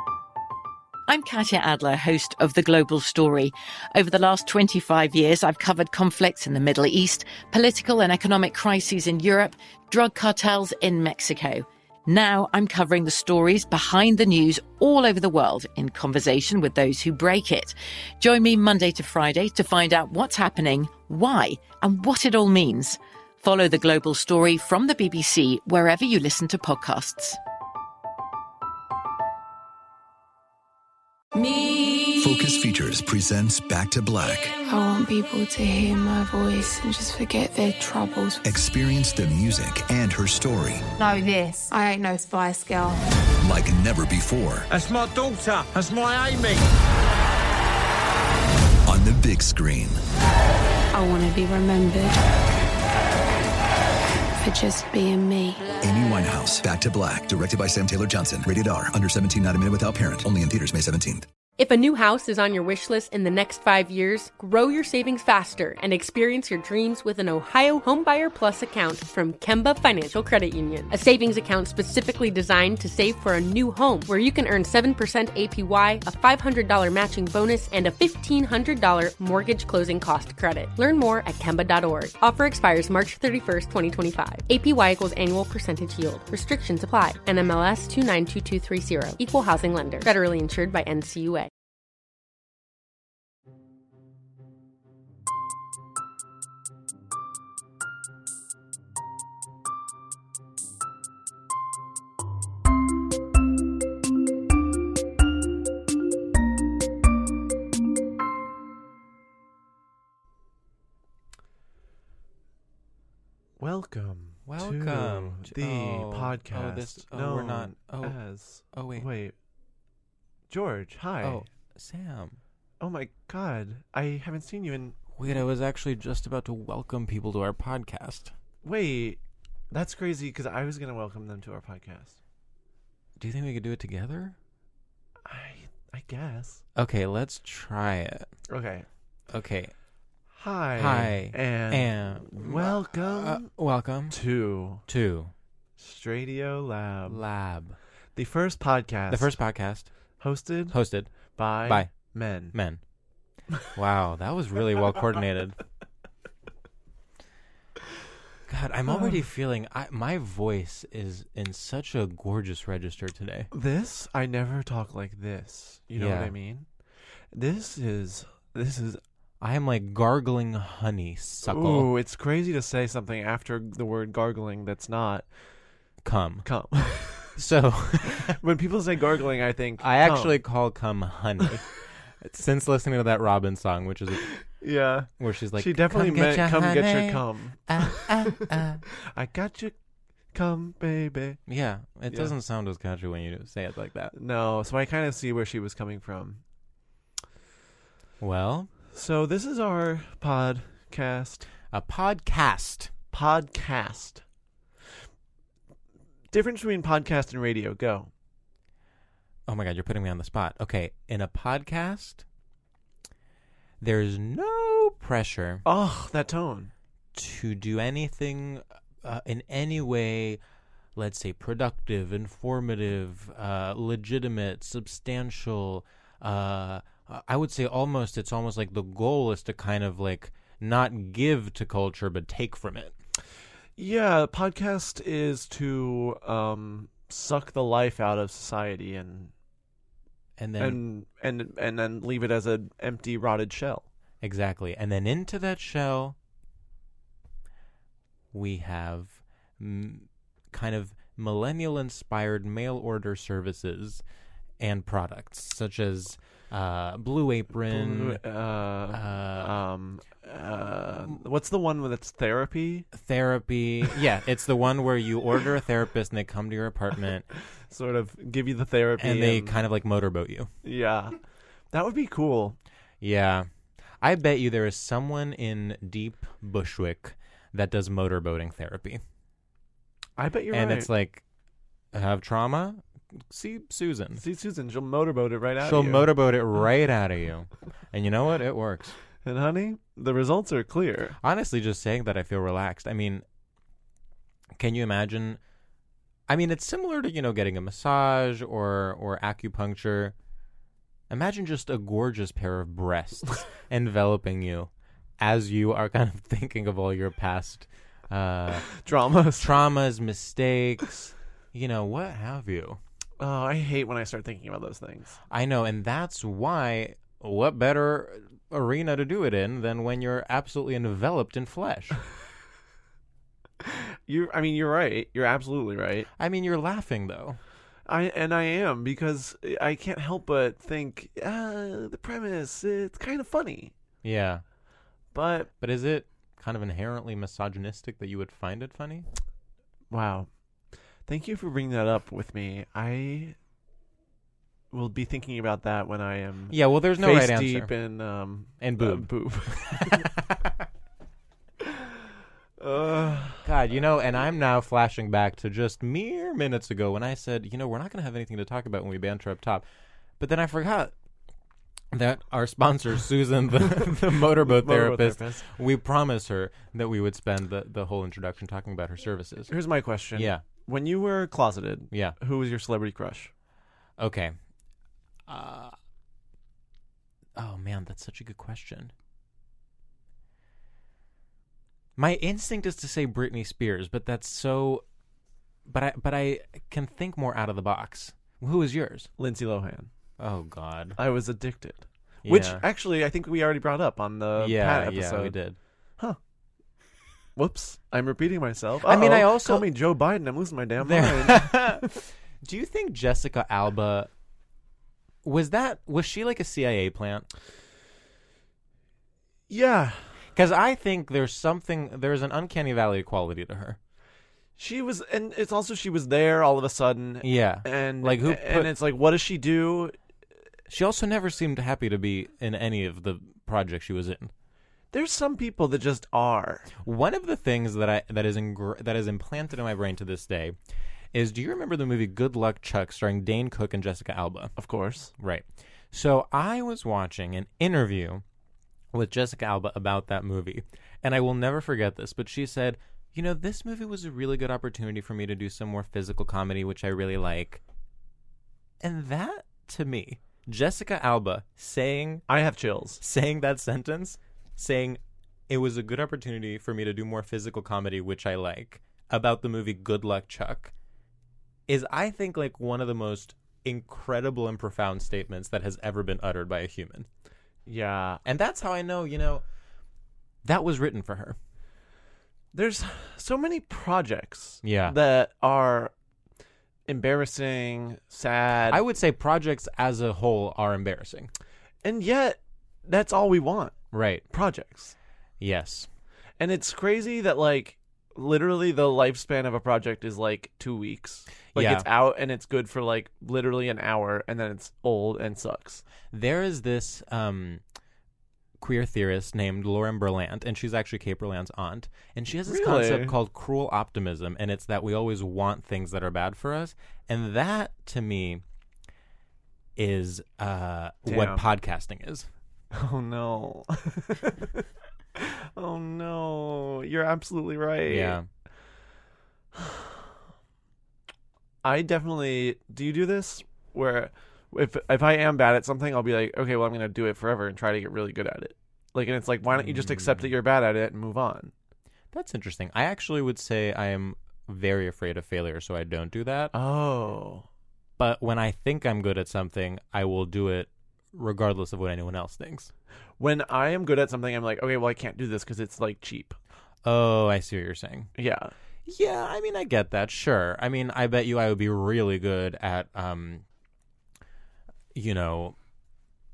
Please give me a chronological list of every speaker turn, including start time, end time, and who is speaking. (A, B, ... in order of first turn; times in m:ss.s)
0:01.1-0:27.4 A
0:32.2-0:34.6 B
0:34.6-0:38.4 C
0:38.4-0:40.9 B
0:41.0-0:43.0 C
0:43.4-0:44.7 B
0:44.7-0:46.7 D
0:48.9-0:50.0 B
0:50.9-0:52.2 C
0:54.4-0:55.7 C
0:55.8-1:01.3 B
1:01.6-1:31.5 E
1:53.6-1:59.3 F
1:54.5-1:59.1 G
2:00.5-2:01.4 F
2:01.2-2:02.4 G
2:02.8-2:05.4 F
2:05.1-2:08.3 G
2:08.6-2:09.2 F
2:09.7-2:12.2 F
2:13.2-2:14.4 G
2:15.2-2:16.6 F
2:16.8-2:18.3 G
2:18.5-2:18.9 F
2:19.3-2:19.7 G
2:20.3-2:23.5 F
2:20.8-2:24.2 G
2:24.1-2:24.9 F
2:24.8-2:25.3 G
2:25.8-2:27.2 F
2:27.1-2:27.8 G
2:28.2-2:29.4 F
2:29.1-2:29.9 G
2:30.2-2:32.6 F
2:30.7-2:32.8 G
2:33.8-2:35.6 G
2:38.5-2:43.5 G
2:43.5-2:46.7 F
2:46.0-2:46.3 G
2:47.3-2:49.0 F
2:49.4-2:51.9 G
2:51.4-2:55.3 F
2:56.0-2:56.5 G
2:56.4-2:57.4 F
2:57.4-2:58.4 G
2:58.2-3:00.4 F
2:59.8-3:01.6 G
3:02.2-3:04.3 G
3:04.3-3:09.8 F
3:05.2-3:08.8 G
3:10.3-3:11.4 F
3:11.5-3:14.1 G
3:14.1-3:16.4 F
3:18.2-3:18.7 G
3:18.9-3:21.5 F
3:21.7-3:22.9 G
3:23.1-3:24.2 F
3:26.3-3:28.1 F
3:29.5-3:32.2 G
3:33.8-3:35.6 G
3:35.6-3:36.7 F
3:37.2-3:40.4 G
3:41.0-3:52.9 G
3:53.8-3:59.3 F
4:00.4-4:00.8 G
4:00.6-4:03.9 F
4:04.2-4:06.2 G
4:08.3-4:14.0 G
4:14.6-4:18.2 G
4:17.5-4:22.9 F
4:18.9-4:19.5 G
4:22.9-4:27.3 G
4:27.7-4:29.6 F
4:29.0-4:30.5 G
4:30.6-4:31.1 F
4:31.7-4:32.6 F
4:33.0-4:33.5 G
4:34.0-4:39.0 G
4:40.2-4:40.9 F
4:40.5-4:41.2 G
4:41.9-4:44.2 G
4:44.1-4:46.1 F
4:45.6-4:49.0 G
4:49.2-4:51.2 F
4:51.2-4:53.2 G
4:54.6-4:55.4 G
4:56.3-5:00.1 G
5:01.1-5:04.7 G
5:05.2-5:08.6 G
5:08.6-5:09.6 F
5:09.4-5:12.8 G
5:13.2-5:15.2 F
5:15.3-5:22.0 G
5:23.6-5:26.1 F
5:26.2-5:27.4 G
5:27.9-5:33.7 F
5:34.0-5:34.4 G
5:35.1-5:35.5 F
5:35.6-5:39.1 G
5:39.9-5:40.3 F
5:41.1-5:43.4 F
5:44.7-5:50.1 F
5:46.5-5:47.7 G
5:48.6-5:50.3 G
5:52.6-5:53.5 F
5:53.4-5:59.6 G
6:00.2-6:00.9 G
6:01.9-6:09.5 G
6:04.4-6:05.5 F
6:09.5-6:13.3 F
6:10.1-6:10.5 G
6:11.9-6:12.2 G
6:14.0-6:14.4 G
6:15.3-6:15.7 G
6:17.4-6:18.9 G
6:22.0-6:24.8 G
6:25.7-6:29.1 G
6:29.2-6:29.9 F
6:30.2-6:31.0 G
6:31.0-6:35.4 F
6:32.2-6:32.6 G
6:34.4-6:35.6 G
6:37.4-6:41.9 F
6:38.8-6:39.7 G
6:40.8-6:41.8 G
6:42.4-6:44.1 G
6:45.2-6:47.3 G
6:49.5-6:50.1 F
6:50.3-6:53.8 G
6:54.6-7:00.0 F
6:57.2-6:58.7 G
7:00.7-7:04.3 G
7:04.9-7:06.7 F
7:06.8-7:10.6 G
7:11.1-7:14.6 G
7:14.6-7:15.1 F
7:15.2-7:18.2 G
7:18.9-7:27.6 G
7:28.8-7:32.2 G
7:32.3-7:33.0 F
7:33.0-7:40.7 G
7:41.7-7:47.1 G
7:47.7-7:48.2 F
7:48.2-7:49.4 G
7:50.4-7:51.4 G
7:52.5-7:55.9 F
7:54.6-7:55.0 G
7:56.9-7:58.8 F
7:58.7-8:01.3 G
8:01.8-8:05.0 F
8:03.9-8:04.2 G
8:05.4-8:05.9 G
8:06.4-8:15.8 F
8:11.4-8:11.9 G
8:16.0-8:17.6 G
8:18.6-8:28.4 G
8:22.5-8:23.2 F
8:29.8-8:32.3 G
8:31.1-8:31.5 F
8:32.7-8:34.6 F
8:35.2-8:38.2 F
8:37.9-8:38.2 G
8:39.6-8:39.8 F
8:41.6-8:51.5 F
8:49.6-8:50.3 G
8:52.1-8:56.5 G
8:56.5-8:57.4 F
8:58.0-9:02.7 G
9:03.2-9:06.4 F
9:06.8-9:08.1 G
9:08.2-9:08.5 F
9:08.9-9:13.4 G
9:14.9-9:15.6 G